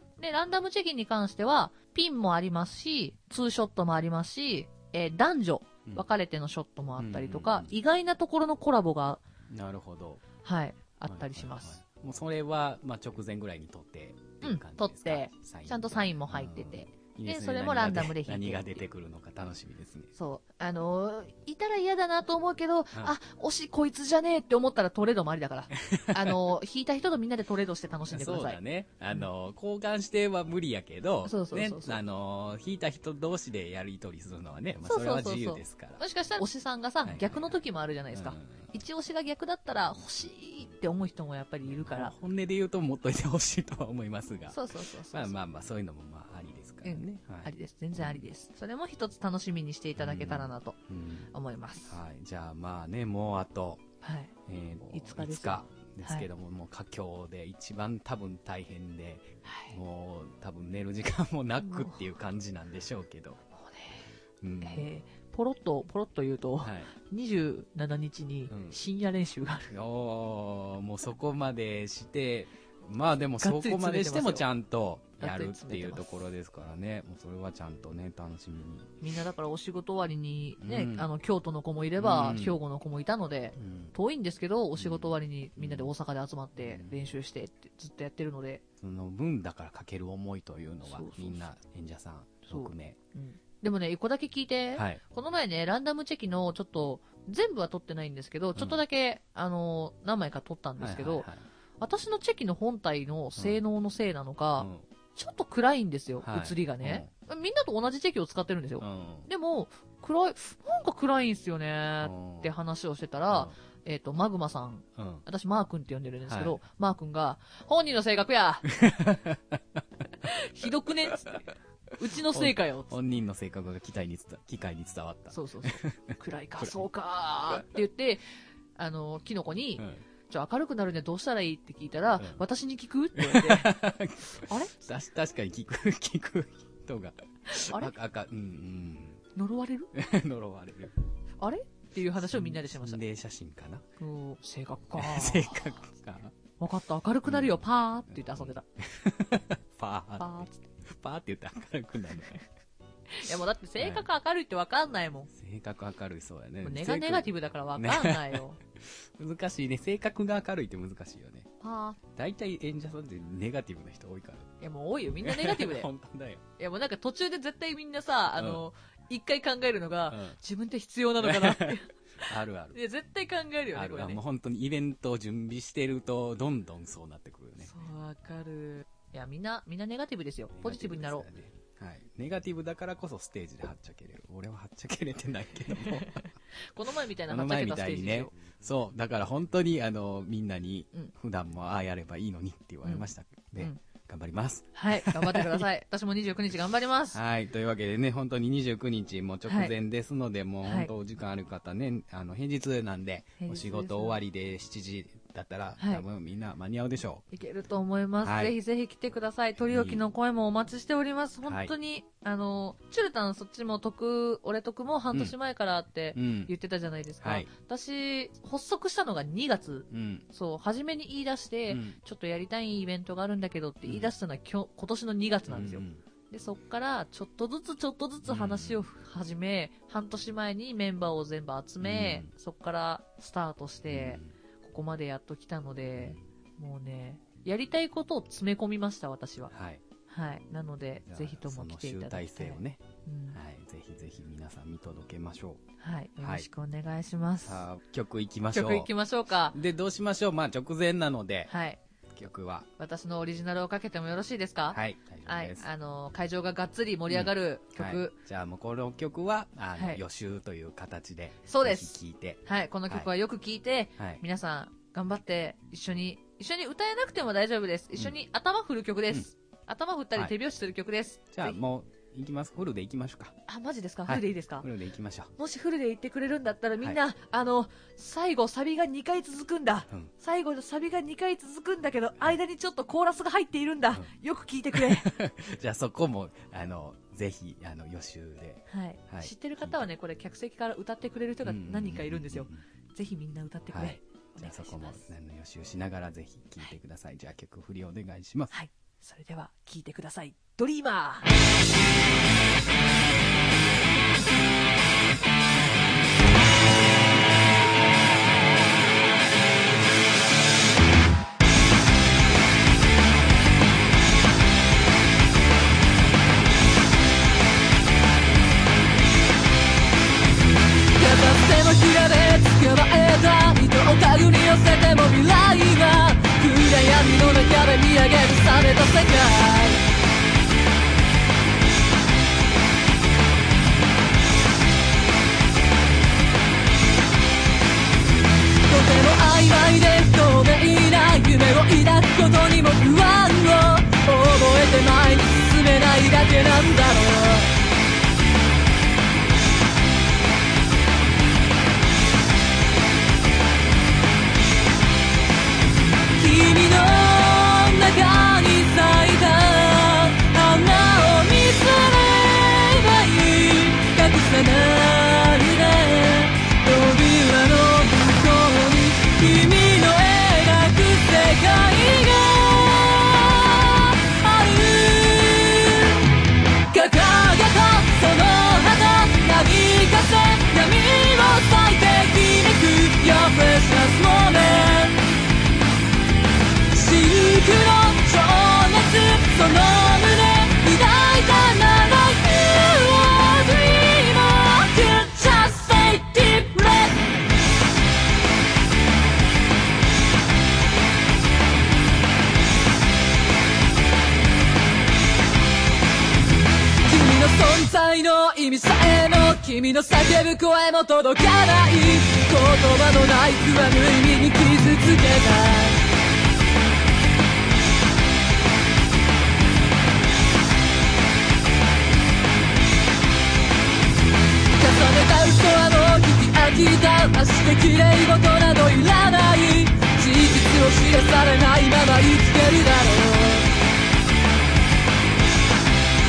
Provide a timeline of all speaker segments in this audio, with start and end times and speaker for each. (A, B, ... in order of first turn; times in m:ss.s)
0:00.2-0:09.2 A
0:07.0-0:07.7 B
0:09.5-0:10.2 B
0:10.4-0:11.8 A
0:11.1-0:20.1 B
0:14.4-0:18.8 A
0:20.2-0:28.6 A
0:25.8-0:26.5 B
0:28.1-0:36.0 B
0:31.2-0:32.0 A
0:34.8-0:42.1 A
0:37.0-0:37.5 B
0:38.1-0:38.7 B
0:41.7-0:48.3 B
0:44.5-0:45.4 A
0:46.8-0:50.8 A
0:50.0-0:51.3 B
0:51.3-0:52.0 A
0:51.8-0:53.8 B
0:54.0-0:54.3 A
0:54.5-1:03.4 B
0:54.9-0:56.3 A
0:59.4-0:59.8 A
1:01.6-1:02.0 A
1:03.5-1:04.1 A
1:04.4-1:04.9 B
1:04.6-1:09.7 A
1:06.6-1:06.9 B
1:08.5-1:08.8 B
1:09.7-1:19.0 B
1:13.4-1:14.5 A
1:15.2-1:16.1 A
1:19.0-1:28.6 A
1:20.6-1:21.1 B
1:22.0-1:22.6 B
1:23.6-1:24.0 B
1:24.8-1:25.9 B
1:26.6-1:27.0 B
1:28.8-1:33.0 B
1:30.8-1:31.5 A
1:32.5-1:41.3 A
1:34.8-1:35.0 B
1:40.8-1:41.4 B
1:41.8-1:58.7 A
1:44.6-1:44.8 B
1:46.2-1:47.1 B
1:48.8-1:49.3 B
1:52.0-1:52.5 B
1:55.0-1:55.2 B
1:56.3-1:56.6 B
1:58.7-1:59.8 B
2:00.2-2:01.5 A
2:01.1-2:01.4 B
2:02.0-2:03.0 A
2:02.2-2:06.8 B
2:05.3-2:08.2 A
2:08.8-2:13.8 A
2:13.2-2:19.2 B
2:14.4-2:14.7 A
2:17.5-2:17.9 A
2:19.4-2:19.9 A
2:19.9-2:21.0 B
2:21.4-2:23.0 A
2:22.3-2:23.8 B
2:24.0-2:25.8 A
2:25.0-2:26.3 B
2:26.6-2:28.6 A
2:27.3-2:27.6 B
2:28.1-2:32.4 B
2:30.2-2:30.6 A
2:33.1-2:35.3 A
2:33.8-2:34.1 B
2:35.3-2:41.5 B
2:36.6-2:38.6 A
2:41.6-2:42.0 A
2:42.1-2:44.5 B
2:44.6-2:45.9 A
2:45.2-2:46.4 B
2:46.6-2:54.2 A
2:48.4-2:48.6 B
2:50.1-2:50.4 B
2:51.2-2:52.8 B
2:53.7-2:57.7 B
2:57.6-3:01.3 A
3:00.5-3:06.3 B
3:05.7-3:08.4 A
3:07.3-3:15.6 B
3:14.8-3:17.2 A
3:17.1-3:27.2 B
3:19.5-3:19.7 A
3:20.6-3:20.9 A
3:23.4-3:24.2 A
3:25.8-3:26.0 A
3:27.3-3:59.5 A
3:28.2-3:28.6 B
3:29.7-3:30.0 B
3:31.5-3:31.7 B
3:36.2-3:36.5 B
3:37.2-3:37.5 B
3:39.9-3:40.3 B
3:41.7-3:42.0 B
3:43.8-3:44.1 B
3:45.5-3:46.0 B
3:48.3-3:48.8 B
3:51.8-3:52.3 B
3:53.9-3:54.3 B
3:59.5-3:59.8 B
4:00.1-4:03.4 A
4:01.1-4:05.6 B
4:05.8-4:07.7 A
4:06.2-4:06.5 B
4:07.4-4:08.9 B
4:08.5-4:09.6 A
4:09.5-4:11.5 B
4:11.5-4:11.8 A
4:12.1-4:12.7 B
4:12.8-4:18.2 A
4:14.7-4:15.7 B
4:17.1-4:23.1 B
4:19.8-4:20.0 A
4:21.5-4:31.6 A
4:24.0-4:24.2 B
4:31.3-4:33.4 B
4:33.5-4:34.7 A
4:34.1-4:35.3 B
4:35.4-4:45.2 A
4:44.7-4:49.8 B
4:48.7-4:55.0 A
4:51.4-4:52.6 B
4:53.7-4:58.5 B
4:58.5-5:01.3 A
5:21.0-5:29.8 C
5:38.7-5:47.5 C
5:56.2-6:16.0 C
6:16.7-6:25.0 C
6:26.7-6:37.1 C
6:46.8-6:55.8 C
7:04.5-7:13.5 C